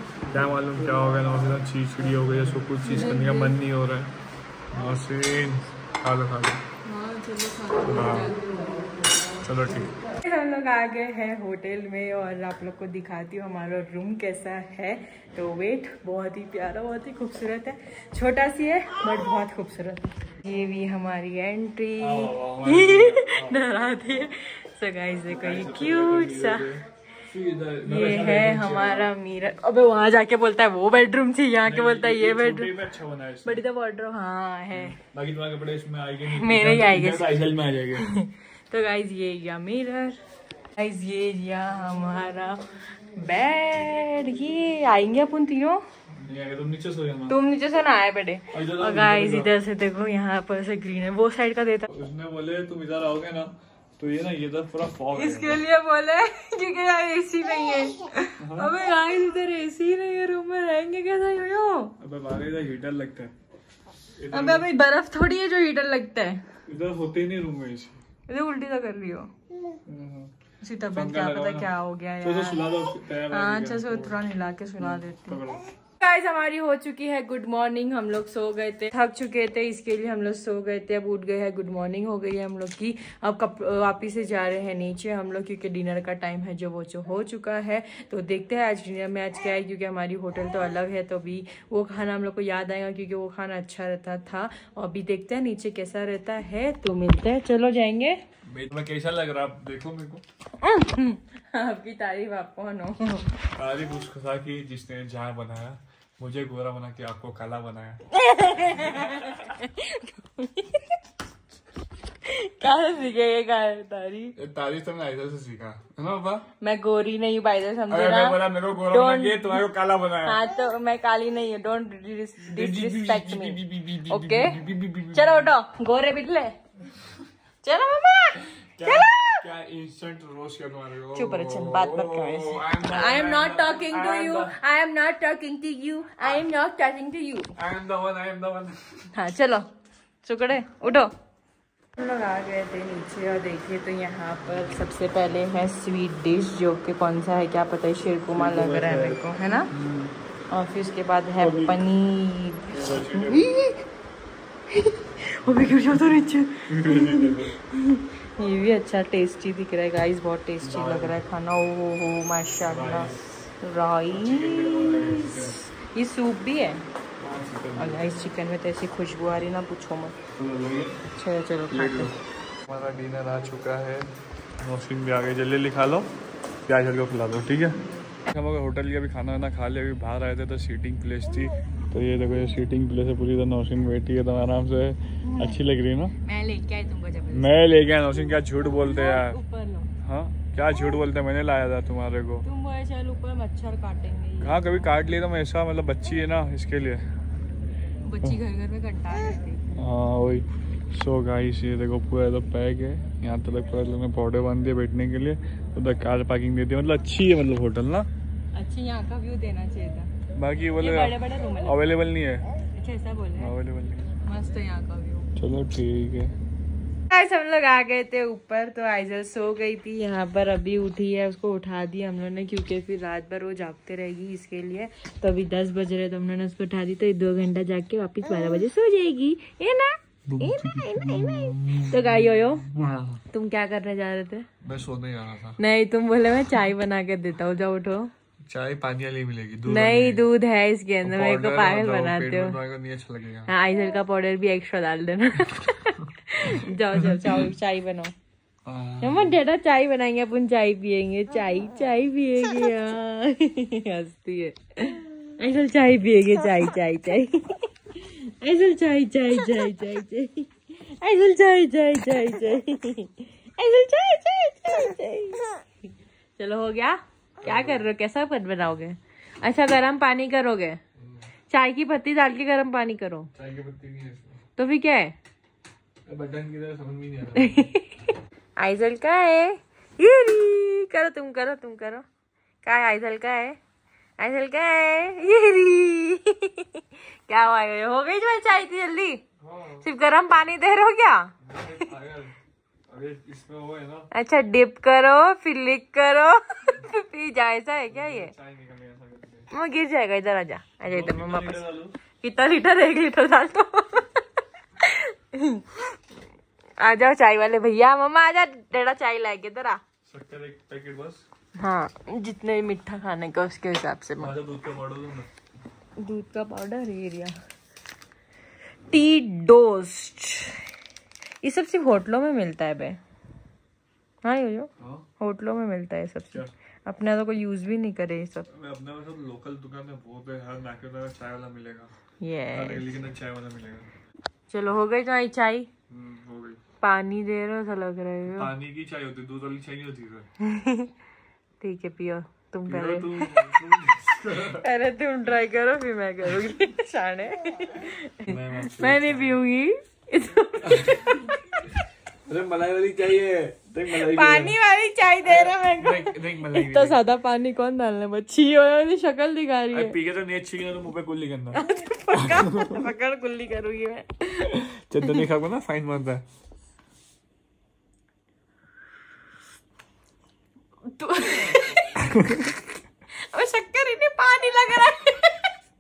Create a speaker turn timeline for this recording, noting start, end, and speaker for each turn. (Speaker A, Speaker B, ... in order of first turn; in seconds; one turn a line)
Speaker A: 0.3-4.1
Speaker B: 2.8-3.6
Speaker A: 4.7-6.6
Speaker B: 6.8-9.0
Speaker A: 7.8-8.4
Speaker A: 9.4-9.9
Speaker B: 10.2-26.7
Speaker A: 22.0-23.6
Speaker A: 25.3-29.1
Speaker B: 27.9-32.8
Speaker A: 31.6-33.6
Speaker B: 33.5-35.0
Speaker A: 34.7-38.1
Speaker B: 36.3-37.4
Speaker B: 38.0-40.2
Speaker B: 40.8-45.8
Speaker A: 46.2-47.4
Speaker B: 47.3-51.9
Speaker A: 48.5-49.5
Speaker A: 51.9-55.6
Speaker B: 55.1-61.9
Speaker A: 58.4-58.7
Speaker A: 62.0-63.3
Speaker A: 64.2-64.7
Speaker B: 64.3-66.4
Speaker A: 66.7-68.0
Speaker B: 68.3-69.3
Speaker A: 69.9-70.3
Speaker B: 70.6-72.7
Speaker A: 70.9-74.2
Speaker B: 73.3-75.4
Speaker A: 74.8-75.7
Speaker B: 76.0-98.2
Speaker A: 98.5-100.2
Speaker B: 100.6-103.4
Speaker A: 103.5-108.0
Speaker B: 108.1-111.0
Speaker A: 109.0-109.5
Speaker B: 112.2-114.3
Speaker A: 114.4-116.5
Speaker B: 116.6-119.6
Speaker A: 117.9-120.4
Speaker B: 120.2-126.6
Speaker A: 122.5-125.5
Speaker B: 127.6-129.4
Speaker A: 128.5-134.6
Speaker B: 131.1-137.5
Speaker A: 137.6-139.1
Speaker B: 139.1-139.7
Speaker B: 140.2-141.1
Speaker B: 142.0-149.7
Speaker A: 148.3-150.2
Speaker B: 150.5-152.7
Speaker A: 151.4-151.8
Speaker A: 152.7-153.5
Speaker B: 153.3-153.8
Speaker B: 154.7-166.8
Speaker A: 156.7-157.6
Speaker A: 160.6-161.2
Speaker A: 162.7-163.5
Speaker A: 164.1-165.6
Speaker A: 167.2-168.1
Speaker B: 167.8-170.2
Speaker A: 170.3-171.0
Speaker B: 171.1-172.1
Speaker A: 171.7-172.1
Speaker A: 172.7-176.1
Speaker A: 176.7-186.1
Speaker B: 185.2-185.6
Speaker B: 186.2-187.6
Speaker A: 187.3-189.4
Speaker B: 188.7-189.9
Speaker A: 190.0-192.4
Speaker B: 192.4-194.8
Speaker A: 194.4-197.1
Speaker B: 198.1-199.6
Speaker A: 199.7-208.1
Speaker B: 208.5-210.1
Speaker A: 210.3-212.5
Speaker B: 210.8-211.8
Speaker B: 212.8-213.5
Speaker A: 213.4-214.1
Speaker B: 214.2-215.3
Speaker A: 215.4-216.3
Speaker B: 217.1-232.7
Speaker A: 230.3-233.2
Speaker B: 233.3-234.5
Speaker A: 234.6-235.6
Speaker B: 235.6-238.1
Speaker A: 238.5-240.3
Speaker B: 239.7-242.6
Speaker A: 241.0-243.5
Speaker B: 243.5-248.1
Speaker A: 246.0-247.4
Speaker A: 248.7-249.4
Speaker B: 249.0-265.6
Speaker B: 266.4-270.8
Speaker A: 267.4-267.9
Speaker A: 271.0-271.3
Speaker B: 271.5-273.3
Speaker A: 273.3-274.4
Speaker B: 274.6-275.1
Speaker A: 276.1-277.7
Speaker B: 277.4-278.0
Speaker B: 278.6-282.0
Speaker B: 282.6-283.6
Speaker B: 284.2-289.2
Speaker A: 289.4-289.9
Speaker B: 289.8-291.3
Speaker A: 291.4-292.4
Speaker A: 292.9-294.1
Speaker B: 294.1-298.3
Speaker A: 297.9-299.5
Speaker B: 299.5-301.6
Speaker A: 300.9-301.9
Speaker B: 302.2-304.2
Speaker B: 304.8-306.0
Speaker B: 306.8-309.8
Speaker A: 310.1-311.2
Speaker B: 311.6-314.3
Speaker A: 314.2-315.3
Speaker B: 316.0-317.4
Speaker B: 318.9-320.6
Speaker B: 321.4-323.0
Speaker B: 324.2-328.5
Speaker A: 324.8-325.1
Speaker A: 328.5-331.9
Speaker B: 332.2-332.9
Speaker A: 332.5-333.9
Speaker B: 334.5-335.7
Speaker A: 335.9-336.6
Speaker B: 336.8-338.5
Speaker A: 338.3-340.3
Speaker B: 340.4-340.9
Speaker B: 341.6-343.6
Speaker A: 342.7-344.6
Speaker B: 344.6-351.6
Speaker A: 348.3-349.4
Speaker A: 350.6-351.3
Speaker A: 352.3-354.6
Speaker B: 353.9-359.9
Speaker A: 355.2-357.0
Speaker A: 359.7-362.8
Speaker B: 361.5-365.2
Speaker A: 364.4-366.2
Speaker B: 370.9-372.1
Speaker A: 372.0-372.5
Speaker B: 373.1-375.5